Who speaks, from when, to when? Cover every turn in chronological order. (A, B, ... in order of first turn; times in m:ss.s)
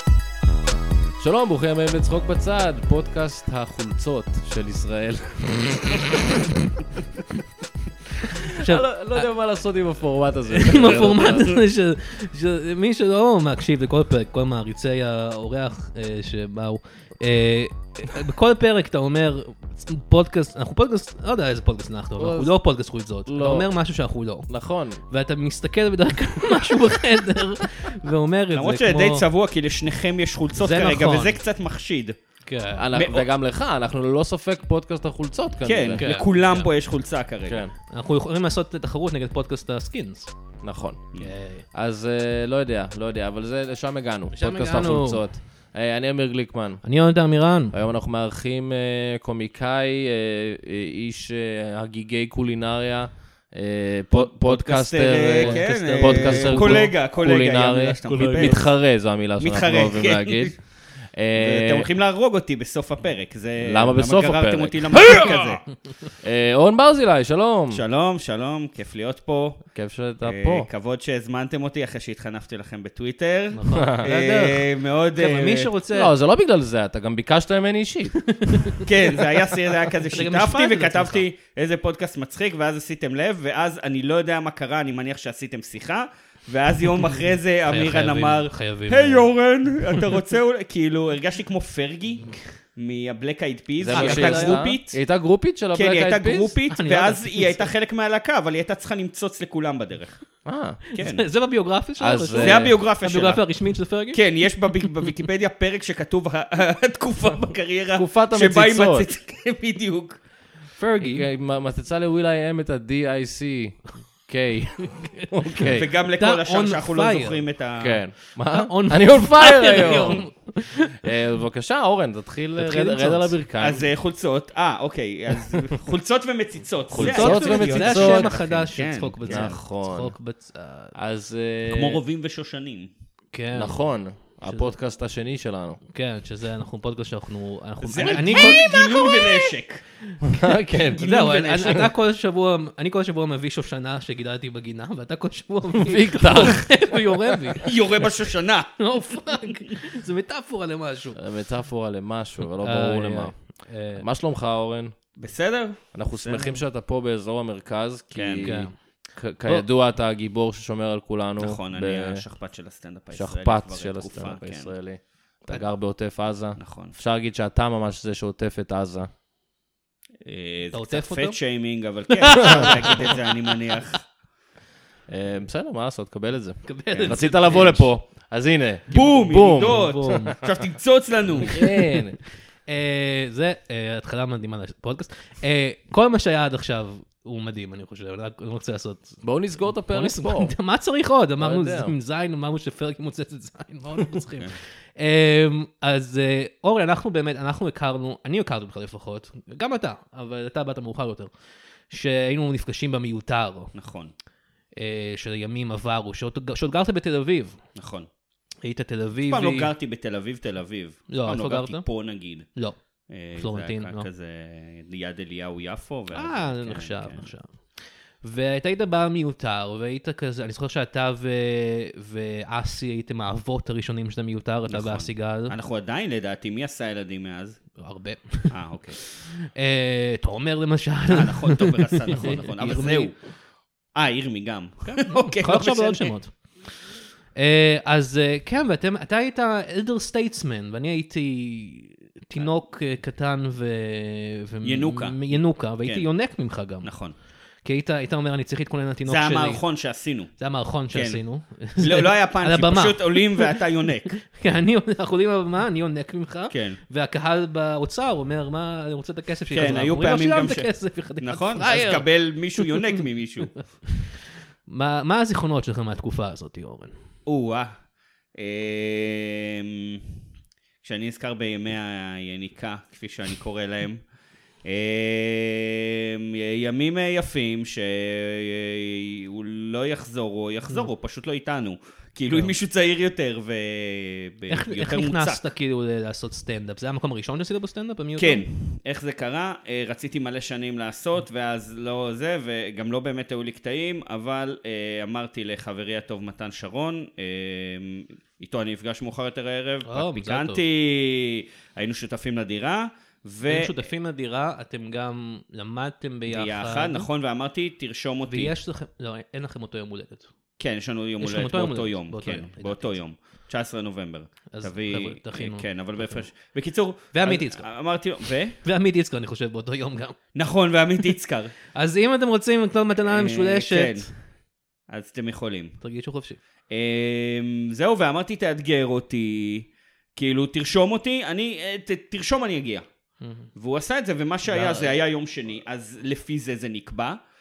0:01.2-0:06.3 A
0:08.4-0:11.6 A
0:08.6-0:08.8 B
0:10.5-0:24.5 B
0:22.2-0:22.5 A
0:23.2-0:23.7 A
0:24.5-0:25.0 A
0:25.1-0:29.2 B
0:28.5-0:32.2 C
0:30.6-0:31.4 B
0:32.4-0:32.9 B
0:32.8-0:36.0 A
0:32.9-0:33.3 C
0:35.6-0:37.6 C
0:36.0-0:36.7 B
0:37.5-0:37.7 A
0:37.9-0:40.3 B
0:40.6-0:41.1 A
0:41.2-0:41.6 B
0:41.7-0:46.8 A
0:44.3-0:45.2 B
0:46.8-0:47.8 B
0:47.7-1:01.9 A
0:54.1-0:58.7 C
0:55.2-0:56.9 B
0:59.4-1:00.5 C
1:01.3-1:05.6 C
1:03.6-1:05.6 A
1:06.2-1:07.8 A
1:07.7-1:09.7 C
1:09.7-1:10.7 A
1:10.2-1:15.7 C
1:13.5-1:16.1 B
1:13.8-1:14.1 A
1:15.9-1:18.5 A
1:18.3-1:19.0 B
1:18.8-1:35.0 C
1:20.1-1:21.2 B
1:27.7-1:29.3 B
1:33.8-1:36.6 A
1:33.9-1:34.6 B
1:35.7-1:40.2 C
1:36.7-1:37.7 B
1:40.4-1:40.8 A
1:40.9-1:41.2 C
1:40.9-1:44.2 B
1:42.0-1:42.8 A
1:42.3-1:43.4 C
1:44.1-1:50.2 C
1:48.0-1:49.1 A
1:50.8-1:51.2 B
1:51.0-1:55.9 A
1:54.8-1:57.4 B
1:55.6-1:58.0 C
1:57.8-2:00.3 A
1:58.5-2:01.1 B
1:59.8-2:00.1 C
2:01.0-2:03.9 A
2:02.6-2:03.3 B
2:03.6-2:09.6 C
2:06.9-2:10.9 B
2:06.9-2:08.4 A
2:09.3-2:10.1 A
2:10.9-2:12.0 A
2:11.7-2:12.9 C
2:13.3-2:13.8 B
2:13.5-2:15.8 A
2:14.4-2:14.7 B
2:15.9-2:19.5 B
2:17.8-2:19.8 C
2:18.1-2:18.7 A
2:20.2-2:21.2 A
2:20.8-2:27.7 B
2:21.0-2:21.9 C
2:25.7-2:27.5 A
2:27.6-2:28.8 C
2:28.8-2:31.2 B
2:31.2-2:33.3 A
2:32.6-2:34.0 B
2:33.9-2:34.9 A
2:35.2-2:36.6 C
2:35.9-2:42.2 A
2:38.1-2:38.6 C
2:38.4-2:38.7 B
2:41.4-2:44.7 C
2:43.1-2:49.1 A
2:46.6-2:46.9 C
2:50.2-2:54.0 C
2:50.7-2:51.4 B
2:52.2-2:53.1 B
2:52.4-2:52.7 A
2:55.1-2:59.9 A
2:56.6-2:57.8 B
2:56.9-2:57.8 C
2:58.9-3:01.6 C
2:59.4-3:00.4 B
3:01.4-3:02.2 A
3:01.6-3:02.0 B
3:02.7-3:09.2 B
3:09.2-3:10.5 A
3:09.9-3:21.3 B
3:11.4-3:11.9 A
3:21.9-3:23.7 B
3:23.7-3:24.1 C
3:24.8-3:27.6 B
3:27.7-3:28.1 C
3:28.6-3:29.7 B
3:29.3-3:32.5 C
3:31.1-3:31.8 B
3:33.1-3:37.3 C
3:33.4-3:34.0 B
3:36.1-3:37.5 B
3:38.2-3:45.6 B
3:44.7-3:47.6 C
3:47.8-3:53.1 B
3:48.5-3:49.0 C
3:51.1-3:53.2 C
3:53.9-3:56.1 C
3:54.8-3:56.4 B
3:57.3-4:06.9 B
4:04.6-4:06.1 C
4:06.8-4:07.1 C
4:07.6-4:09.6 B
4:09.0-4:10.3 C
4:10.4-4:13.6 B
4:10.9-4:11.2 C
4:11.8-4:14.2 C
4:14.2-4:22.9 B
4:16.5-4:16.8 C
4:19.5-4:20.7 C
4:21.2-4:23.6 C
4:24.7-4:26.9 B
4:27.2-4:27.7 C
4:28.3-4:30.1 C
4:30.8-4:34.0 C
4:34.6-4:45.5 C
4:44.5-4:48.4 B
4:48.2-5:03.9 C
4:59.8-5:00.6 B
5:03.5-5:07.1 B
5:06.3-5:08.5 C
5:08.3-5:10.3 B
5:10.6-5:18.6 C
5:11.2-5:13.0 B
5:14.5-5:16.3 B
5:17.1-5:17.6 B
5:18.6-5:20.2 B
5:20.3-5:21.5 C
5:21.7-5:24.1 B
5:23.0-5:24.1 C
5:24.9-5:25.8 C
5:25.8-5:26.4 B
5:26.7-5:32.8 C
5:33.2-5:33.5 B
5:33.6-5:37.2 C
5:34.5-5:34.9 B